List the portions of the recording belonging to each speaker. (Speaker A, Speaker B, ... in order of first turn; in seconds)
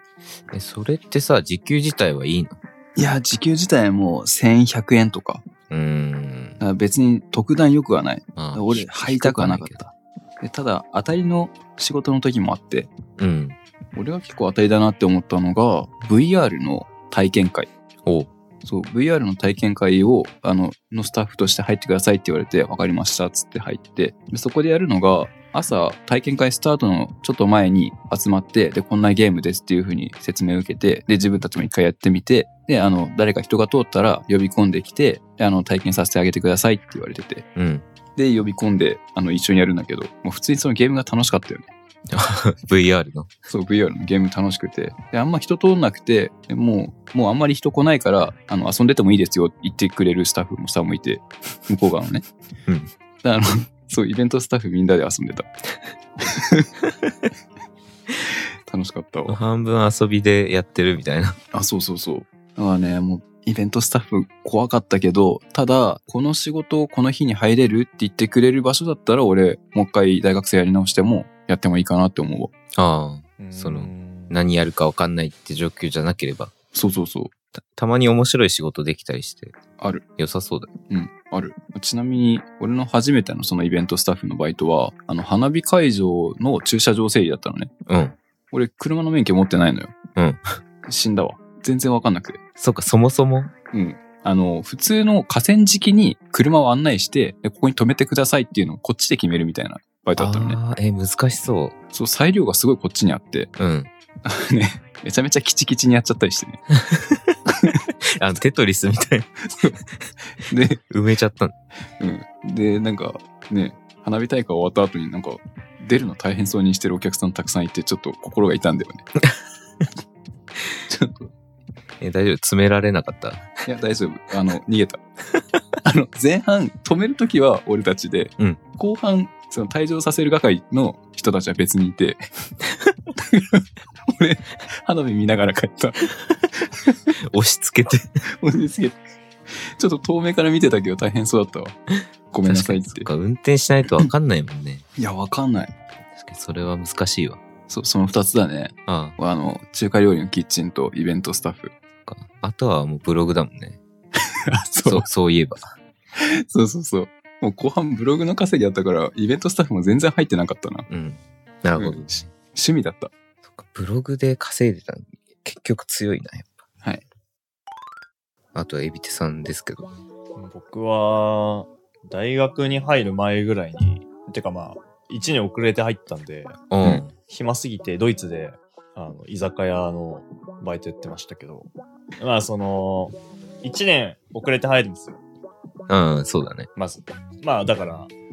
Speaker A: 0.5-2.6, 5.7-6.6, 8.4-9.8, 13.2-13.6, 18.1-18.3, 37.5-37.9, 42.1-43.3, 52.7-52.9, 59.3-61.4, 72.8-76.5, 77.7-79.6, 80.2-80.7, 87.9-88.2, 90.2-90.5, 92.6-93.5, 100.2-101.8, 103.6-103.9, 106.7-107.3, 108.2-109.3, 110.9-111.5, 122.0-123.5, 137.3-138.1, 142.4-144.8, 146.2-147.4, 148.9-149.2, 152.1-153.8, 154.8-155.6, 160.9-162.3, 163.4-166.5, 168.5-169.9, 176.7-177.1, 185.9-186.7
Speaker B: 3.0-5.5, 6.6-12.9, 13.9-17.7, 18.6-37.5, 38.2-41.7, 43.5-52.2, 53.2-55.5, 56.2-56.7, 58.7-59.4, 61.5-72.5, 76.7-77.3, 79.8-80.0, 80.9-87.7, 88.5-89.9, 90.9-92.4, 93.7-100.6, 101.9-103.5, 104.2-106.6, 109.5-109.8, 110.4-110.8, 112.0-119.1, 120.9-121.3, 123.7-125.0, 125.8-132.2, 133.2-136.0, 138.4-139.0, 139.8-141.8, 142.3-143.1, 145.0-145.7, 147.7-151.7, 154.5-155.1, 156.2-160.9, 161.8-163.1
Speaker C: 73.4-74.3, 170.4-176.6, 177.1-185.2, 186.8-188.1